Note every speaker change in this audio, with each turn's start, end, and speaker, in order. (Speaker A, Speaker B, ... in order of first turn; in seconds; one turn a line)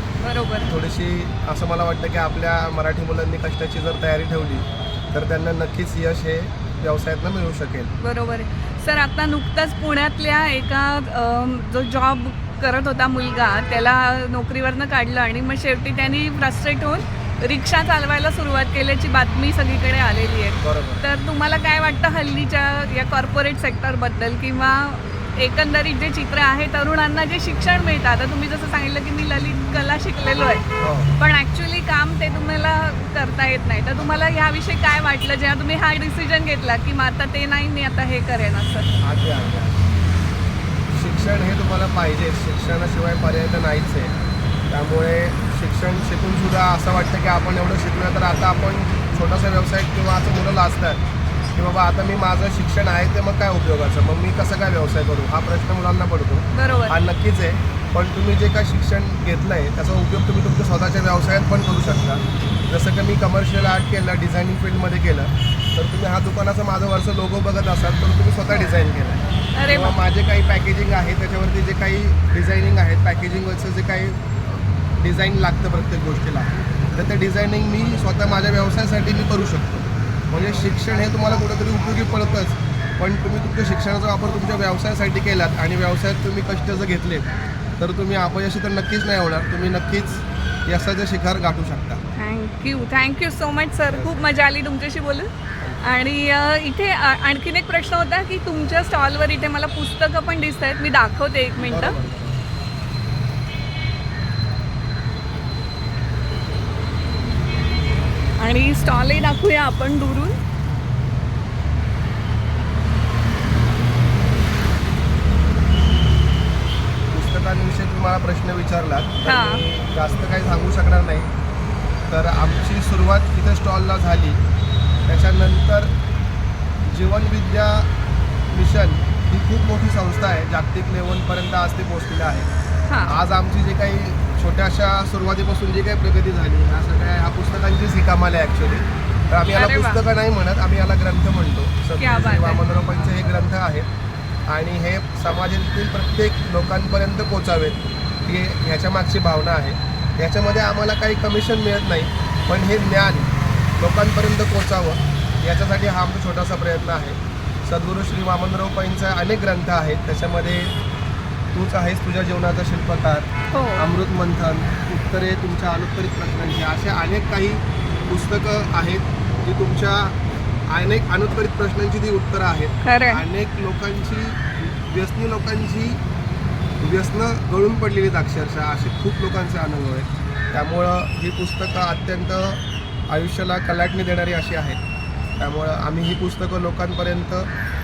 Speaker A: 0.2-0.7
Speaker B: 0.7-7.9
Speaker A: 8.0-30.6
Speaker B: 20.6-21.0
Speaker B: 30.8-31.2
Speaker A: 31.2-38.9
Speaker B: 39.0-39.8
Speaker B: 40.9-44.1
Speaker B: 44.7-51.0
Speaker B: 51.5-87.3
Speaker A: 56.5-56.9
Speaker A: 69.5-70.0
Speaker B: 87.8-92.0
Speaker A: 92.2-95.3
Speaker B: 93.9-94.3
Speaker A: 95.8-102.0
Speaker B: 101.6-102.4
Speaker A: 108.4-110.4
Speaker B: 117.1-121.3
Speaker A: 119.2-119.6
Speaker B: 122.1-124.4
Speaker B: 125.1-125.9
Speaker B: 126.9-127.9
Speaker B: 128.5-132.5
Speaker A: 132.9-133.2
Speaker B: 133.0-143.9
Speaker A: 139.4-140.0
Speaker A: 142.0-142.6
Speaker B: 144.5-160.8
Speaker B: 161.5-170.2
Speaker A: 163.5-163.8
Speaker B: 170.7-176.0
Speaker A: 172.8-173.2
Speaker B: 176.8-184.8
Speaker B: 185.4-187.5